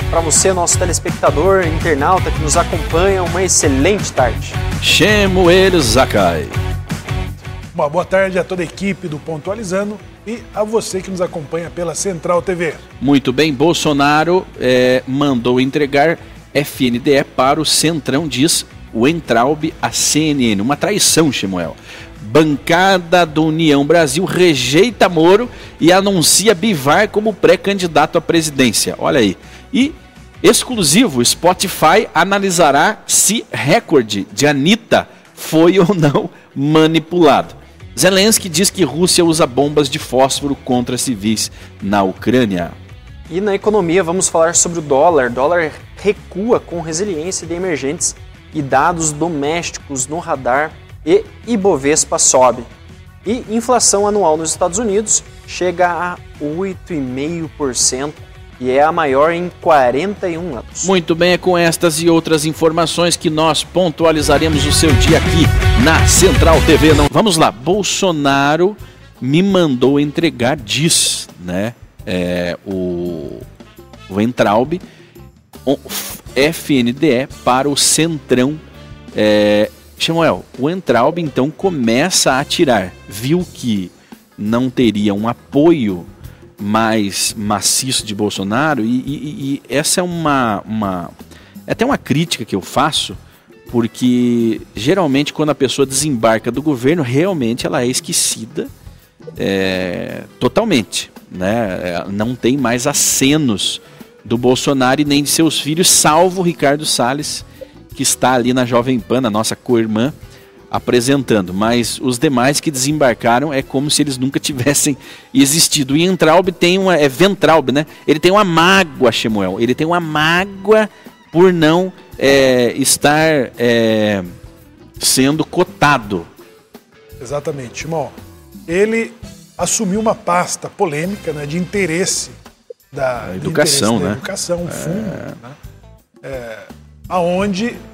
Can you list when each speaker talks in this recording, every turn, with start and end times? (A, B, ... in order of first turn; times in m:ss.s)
0:00.1-0:04.6 A
0:04.8-0:06.6 B
0:07.7-0:12.8 C
0:13.0-0:42.8 B
0:43.3-0:52.7 A
0:53.2-1:00.9 A
1:00.8-1:13.4 B
1:14.1-1:14.8 B
1:15.6-1:18.6 B
1:19.1-1:26.1 B
1:26.6-1:31.1 B
1:31.7-1:33.2 B
1:33.7-1:38.7 B
1:39.4-1:50.1 B
1:50.7-2:04.3 B
2:05.0-2:06.3 B
2:07.2-2:08.1 C
2:08.7-2:12.4 C
2:12.9-2:15.5 C
2:13.2-2:15.4 B
2:16.2-2:17.8 C